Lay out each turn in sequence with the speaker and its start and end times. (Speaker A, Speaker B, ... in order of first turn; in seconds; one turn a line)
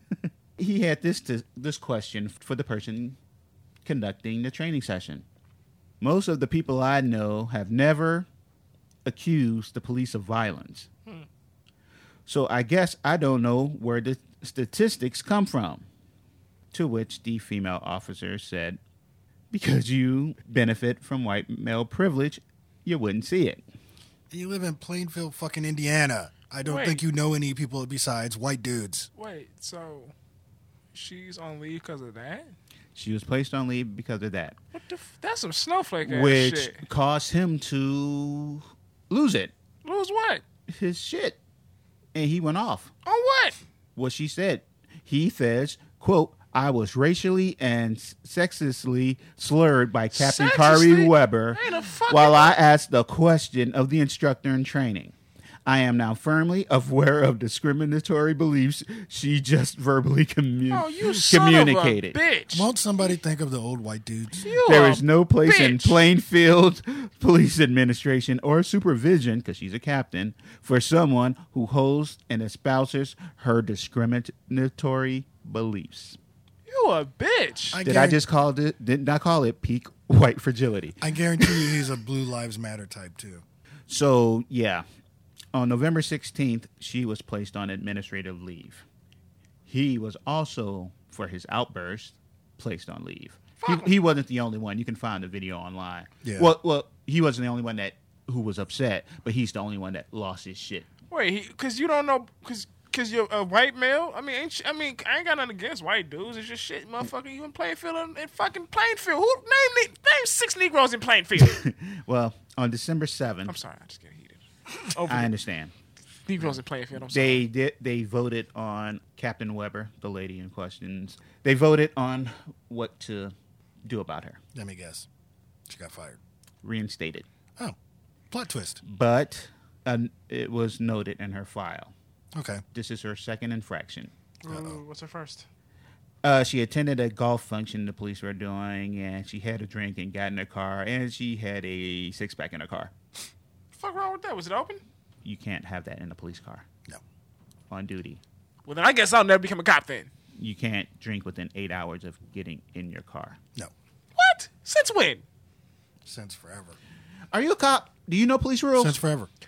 Speaker A: 0.2-3.2
Speaker A: 3.9-5.2
Speaker A: 6.0-8.3
Speaker A: 9.1-10.9
Speaker A: 12.3-15.8
Speaker A: 16.7-18.8
Speaker A: 19.5-23.6
Speaker B: 24.3-29.1
Speaker C: 26.6-27.0
Speaker C: 29.2-30.1
Speaker C: 30.9-32.5
Speaker A: 33.0-34.6
Speaker C: 34.7-36.9
Speaker A: 36.0-39.5
Speaker C: 39.8-40.4
Speaker A: 40.7-41.4
Speaker A: 42.1-42.9
Speaker C: 43.0-43.6
Speaker A: 44.0-55.1
Speaker C: 50.1-52.6
Speaker A: 55.7-62.2
Speaker C: 60.7-62.7
Speaker B: 62.5-64.6
Speaker C: 64.4-66.0
Speaker A: 64.7-76.2
Speaker C: 76.7-77.8
Speaker B: 77.7-78.2
Speaker A: 77.8-81.8
Speaker B: 81.0-83.4
Speaker A: 83.9-84.8
Speaker A: 85.5-88.8
Speaker A: 89.7-100.9
Speaker C: 93.6-93.9
Speaker B: 96.2-96.5
Speaker C: 101.1-111.6
Speaker A: 111.4-113.6
Speaker C: 113.5-115.3
Speaker A: 115.1-115.7
Speaker C: 116.3-117.5
Speaker A: 116.4-123.3
Speaker A: 123.8-124.4
Speaker B: 124.5-125.1
Speaker B: 125.7-126.2
Speaker A: 126.6-127.3
Speaker B: 128.3-128.8
Speaker A: 128.8-131.9
Speaker B: 132.3-132.6
Speaker A: 132.7-134.1
Speaker C: 134.4-135.5
Speaker B: 134.5-134.8
Speaker A: 136.2-142.9
Speaker C: 143.8-144.8
Speaker A: 145.2-146.7
Speaker A: 147.7-148.2
Speaker C: 148.7-150.1
Speaker A: 150.4-153.4
Speaker C: 154.2-155.2
Speaker B: 156.1-156.8
Speaker A: 157.3-159.0
Speaker B: 158.8-159.3